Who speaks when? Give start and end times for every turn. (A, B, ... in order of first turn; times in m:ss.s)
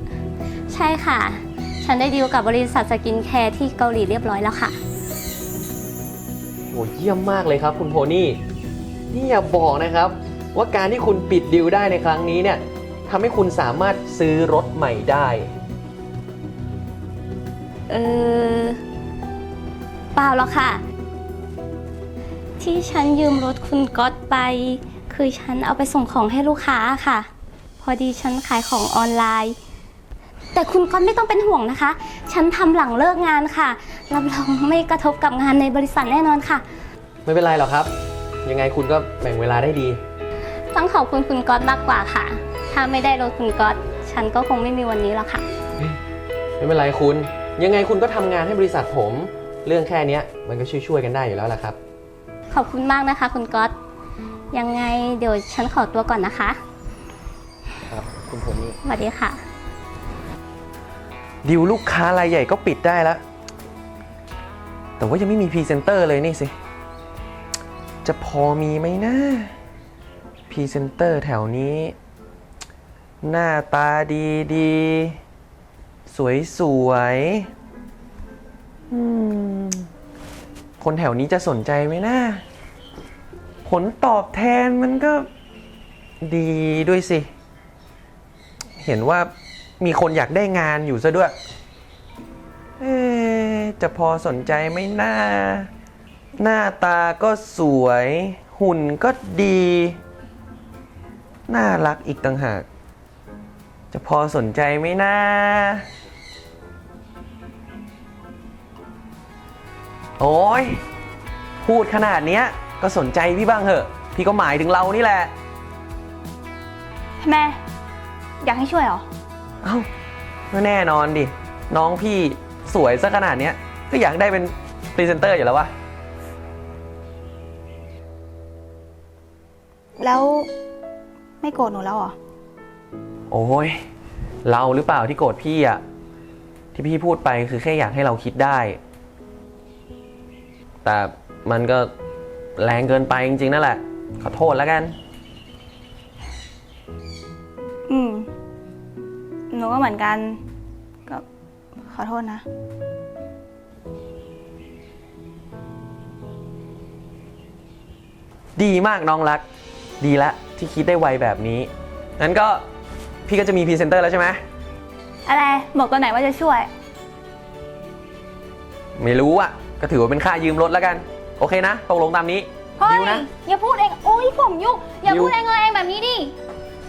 0:00.7-0:04.8 A
0:06.7-0:08.4 B
0:09.1-0:15.5 B
0:17.9-0:18.8 A
0:20.2-0:20.8 A
0:22.6-0:27.3 A
0:27.8-0:29.6 A
0:30.5-0:36.6 A
0:37.3-0:37.9 B
0:38.4-0:40.0 B
0:40.7-0:45.4 A
0:46.6-0:51.8 B
0:52.5-0:53.7 A
0:54.5-0:56.6 A
0:57.9-0:58.8 B
0:58.8-0:59.4 A
1:01.4-1:03.2 B
1:05.0-1:06.5 B
1:08.0-1:09.5 B
1:10.5-1:12.0 B
1:13.2-1:15.2 B
1:16.1-1:17.5 B
1:18.9-1:19.9 B
1:20.8-1:22.4 B
1:23.6-1:25.3 B
1:26.2-1:27.3 B
1:28.8-1:31.3 B
1:32.8-1:35.7 B
1:36.4-1:40.0 B
1:41.5-1:42.7 B
1:43.9-1:45.9 B
1:50.2-1:50.8 B
1:51.6-1:55.3 B
1:57.2-1:57.6 C
1:58.4-1:59.0 C
1:59.6-1:59.9 B
2:00.5-2:05.7 B
2:10.0-2:10.5 C
2:11.4-2:12.2 C
2:13.3-2:13.8 B
2:14.4-2:15.8 B
2:16.8-2:18.8 B
2:20.8-2:21.9 B
2:22.6-2:25.0 B
2:27.9-2:28.3 C
2:29.5-2:30.4 C
2:31.9-2:32.4 C
2:38.6-2:39.4 B
2:40.0-2:42.6 B
2:43.3-2:44.4 B
2:45.3-2:46.7 C
2:49.0-2:53.3 B
2:52.8-2:56.3 C
2:55.1-2:55.4 B